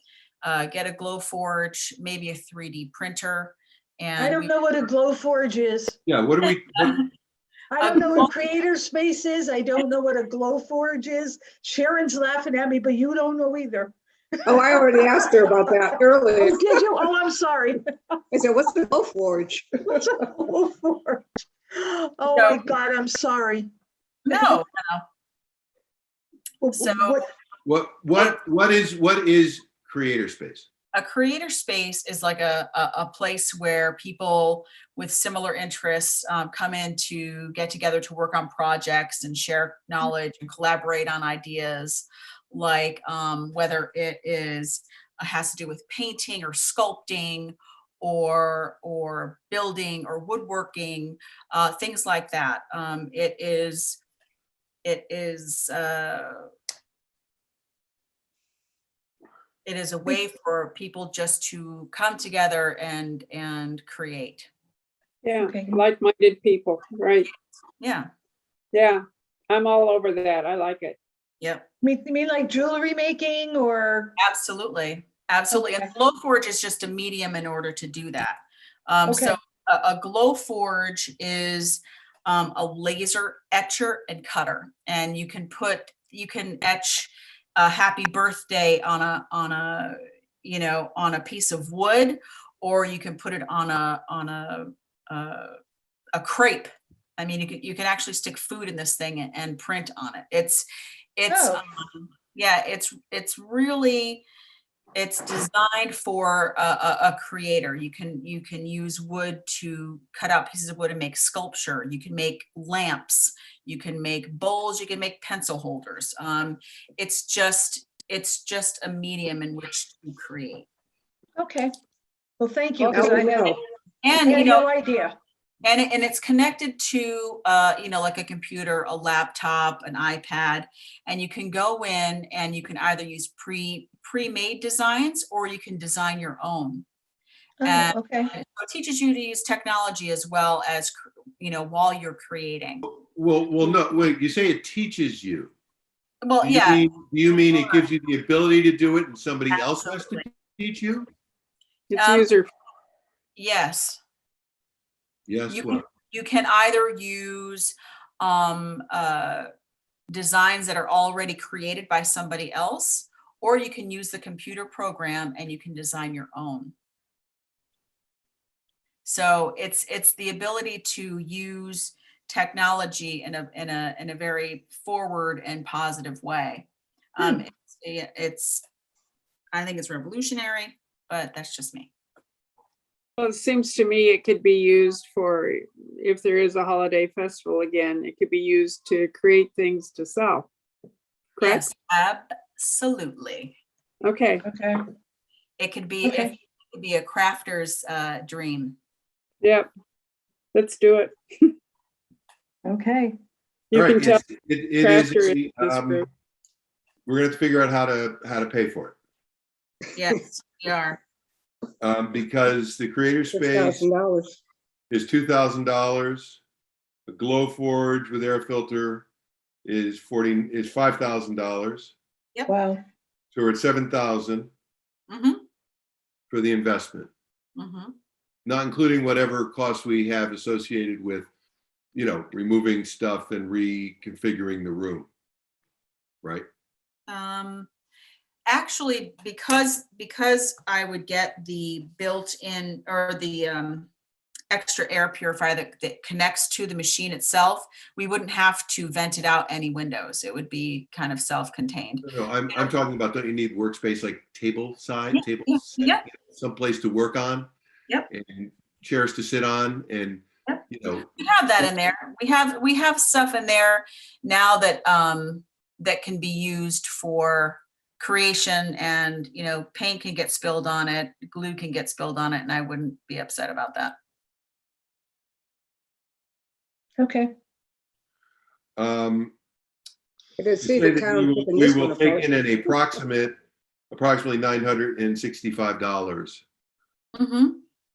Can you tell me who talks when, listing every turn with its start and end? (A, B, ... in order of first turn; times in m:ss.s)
0:00.4-0:04.5 A
0:04.2-0:06.0 B
0:06.0-0:07.0 C
0:07.7-0:17.8 B
0:07.8-0:08.3 A
0:14.4-0:16.8 D
0:18.3-0:19.8 D
0:19.8-0:23.7 B
0:22.3-0:22.6 A
0:24.2-0:25.0 A
0:24.3-0:24.6 B
0:26.6-0:27.3 B
0:26.7-0:27.2 A
0:27.6-0:30.6 C
0:30.9-0:54.0 A
0:54.8-0:56.5 A
0:59.6-1:04.5 A
1:05.2-1:07.3 E
1:05.4-1:05.8 B
1:07.8-1:08.1 A
1:08.7-1:11.0 E
1:11.4-1:11.7 A
1:11.8-1:14.1 B
1:14.2-1:35.6 A
1:15.5-1:15.9 B
1:19.1-1:19.4 B
1:36.1-1:44.2 A
1:41.3-1:41.6 B
1:44.9-2:00.7 A
2:01.4-2:01.7 B
2:02.4-2:03.5 B
2:02.8-2:03.5 E
2:02.9-2:03.6 D
2:04.0-2:04.7 A
2:04.1-2:05.1 B
2:05.6-2:16.8 A
2:17.6-2:18.3 B
2:17.6-2:22.8 A
2:22.8-2:25.5 C
2:26.2-2:27.9 A
2:26.4-2:31.1 C
2:29.6-2:30.2 A
2:31.9-2:32.5 E
2:31.9-2:32.3 A
2:33.4-2:34.0 A
2:35.3-2:35.8 C
2:35.5-2:39.5 A
2:40.1-2:46.7 A
2:49.0-2:58.6 A
2:59.5-3:01.9 A
3:03.2-3:10.5 E
3:11.4-3:11.7 E
3:11.4-3:13.6 A
3:14.0-3:14.4 E
3:14.4-3:14.8 B
3:15.6-3:18.8 A
3:16.0-3:16.3 B
3:19.4-3:19.7 E
3:20.5-3:21.5 E
3:22.6-3:23.2 B
3:23.7-3:24.2 E
3:23.7-3:26.0 C
3:24.8-3:26.1 E
3:27.0-3:29.0 C
3:29.9-3:31.0 A
3:31.8-3:33.9 C
3:33.3-3:34.4 D
3:34.9-3:36.4 C
3:37.1-3:39.1 C
3:39.6-3:41.9 C
3:42.5-3:42.8 B
3:43.3-3:44.5 C
3:45.1-3:45.4 A
3:46.3-3:47.1 C
3:47.6-3:47.9 A
3:48.4-3:51.3 C
3:51.9-3:55.1 C
3:57.1-3:57.7 A
3:58.5-4:03.9 A
4:04.5-4:12.7 A
4:12.0-4:17.5 C
4:15.1-4:16.0 A
4:18.1-4:21.2 C
4:21.2-4:33.9 A
4:37.0-4:37.3 B
4:38.8-4:39.3 C
4:40.4-4:42.4 D
4:40.6-4:43.4 C
4:43.9-4:46.4 C
4:47.1-4:47.6 A